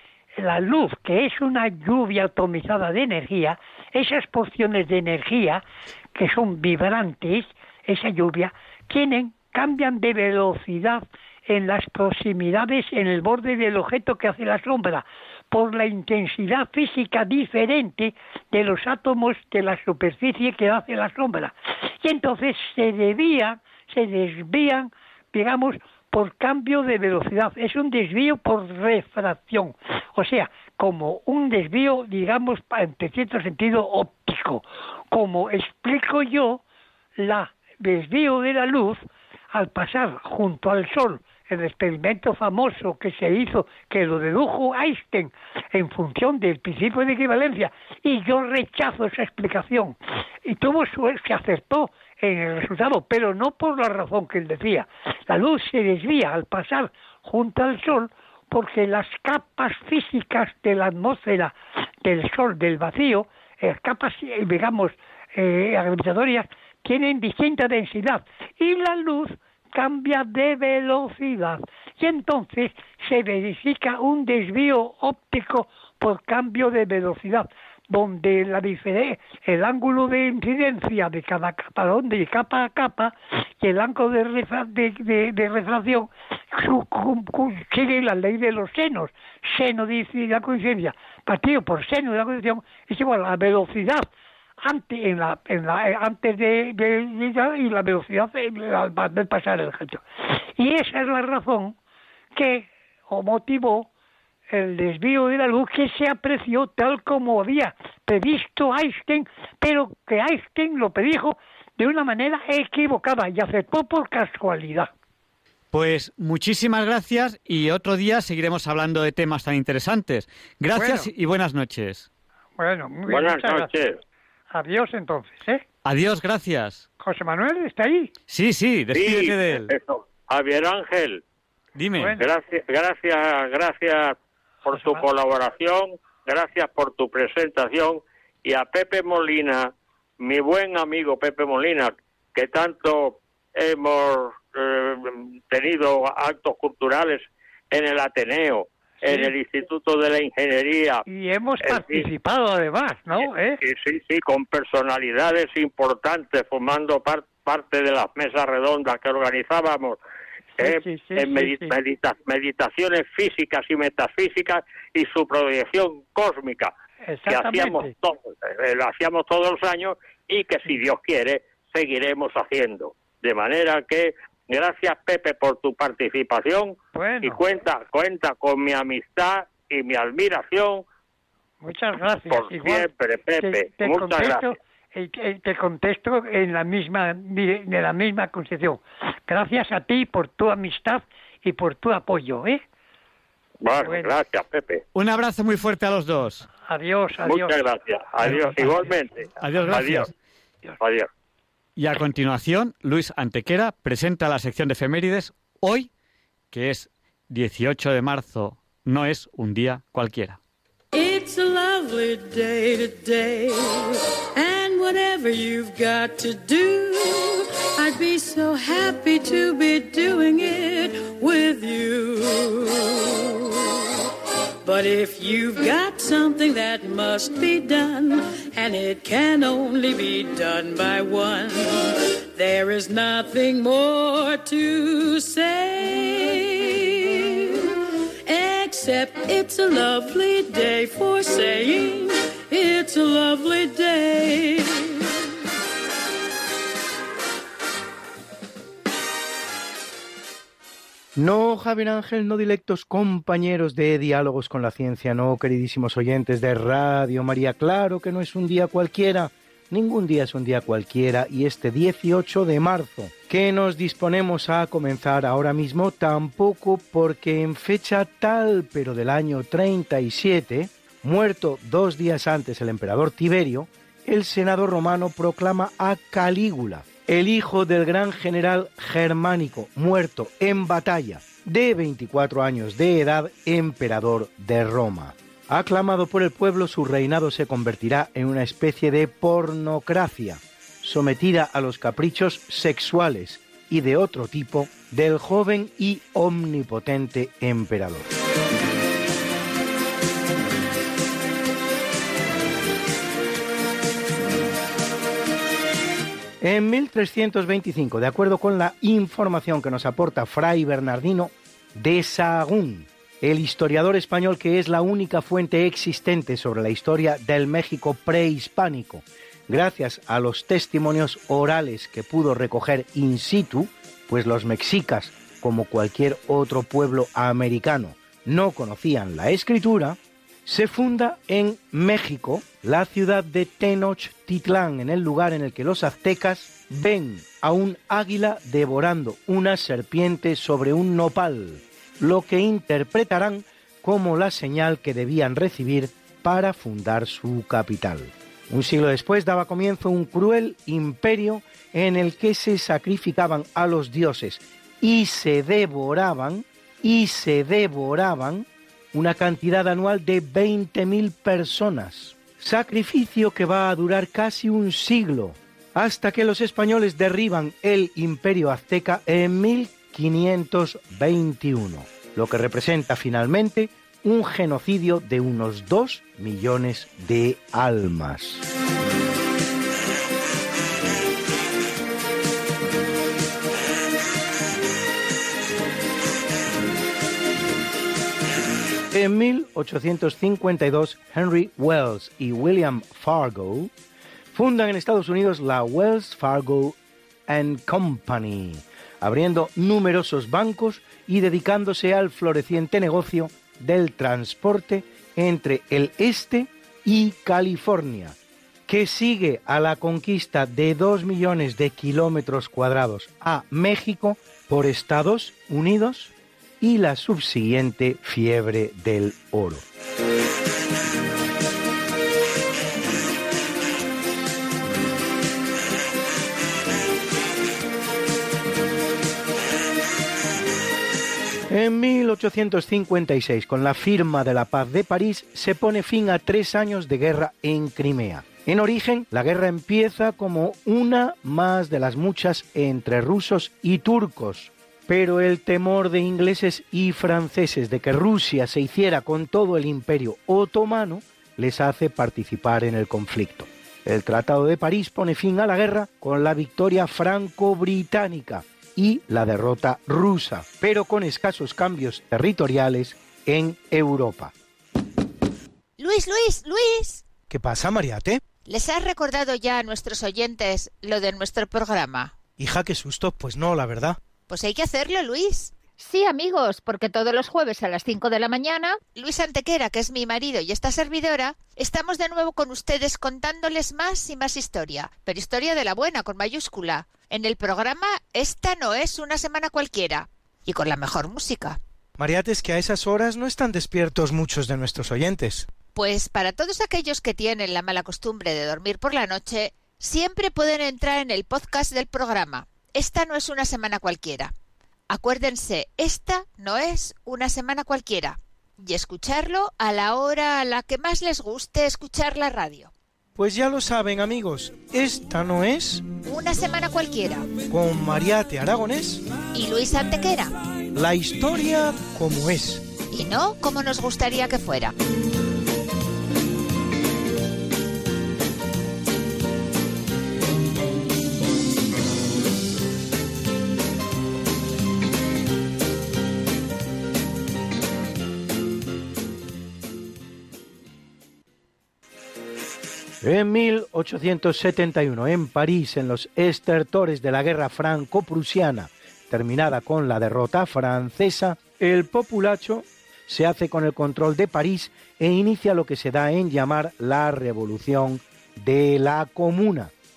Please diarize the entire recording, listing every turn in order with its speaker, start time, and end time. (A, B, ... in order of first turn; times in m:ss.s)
0:00.4-0:05.6 A
0:06.1-0:36.6 A
0:37.2-0:39.0 A
0:39.5-1:34.1 A
1:34.6-1:40.0 A
1:40.6-1:41.7 A
1:42.3-1:43.9 A
1:44.5-1:54.9 A
1:55.7-2:02.1 B
2:00.7-2:01.1 A
2:02.6-2:03.7 A
2:03.1-2:03.9 C
2:04.5-2:05.6 A
2:05.8-2:06.8 B
2:07.0-2:08.1 A
2:08.3-2:09.7 B
2:08.9-2:11.2 C
2:11.8-2:12.2 B
2:12.0-2:12.3 A
2:12.2-2:31.0 C
2:14.7-2:15.0 A
2:29.0-2:29.3 A
2:31.1-2:33.6 A
2:31.7-2:32.0 C
2:33.6-2:40.0 C
2:40.6-2:46.7 C
2:40.6-2:41.8 A
2:47.0-2:47.9 A
2:47.3-3:00.8 C
2:56.9-2:57.4 A
3:01.6-3:02.9 A
3:02.3-3:04.5 C
3:03.4-3:12.6 A
3:13.6-3:14.8 C
3:13.8-3:14.1 A
3:14.9-3:16.5 B
3:16.7-3:17.6 A
3:17.3-3:20.1 C
3:18.2-3:18.9 A
3:19.4-3:20.1 B
3:20.8-3:21.1 C
3:21.8-3:25.9 B
3:26.5-3:30.4 B
3:30.9-3:43.6 D
3:44.6-3:57.6 D
3:58.2-4:05.0 D
4:11.2-4:58.1 E
5:06.4-6:18.4 E
6:28.9-6:33.7 E
6:34.3-6:36.8 E
6:37.3-6:48.2 E
6:48.7-6:59.6 E
7:11.5-7:44.3 E
7:45.8-7:47.1 F
7:47.3-7:48.2 E
7:48.4-7:52.1 F
7:52.3-7:54.0 E
7:54.3-7:55.5 F
7:55.8-7:58.8 G
7:58.8-8:11.6 F
8:12.0-8:15.5 E
8:15.7-8:24.3 F
8:24.9-8:32.7 F
8:33.2-8:35.9 E
8:36.0-8:37.4 F
8:37.4-8:39.0 E
8:39.3-8:40.3 F
8:40.7-8:42.6 E
8:42.9-8:44.7 F
9:03.0-9:19.7 E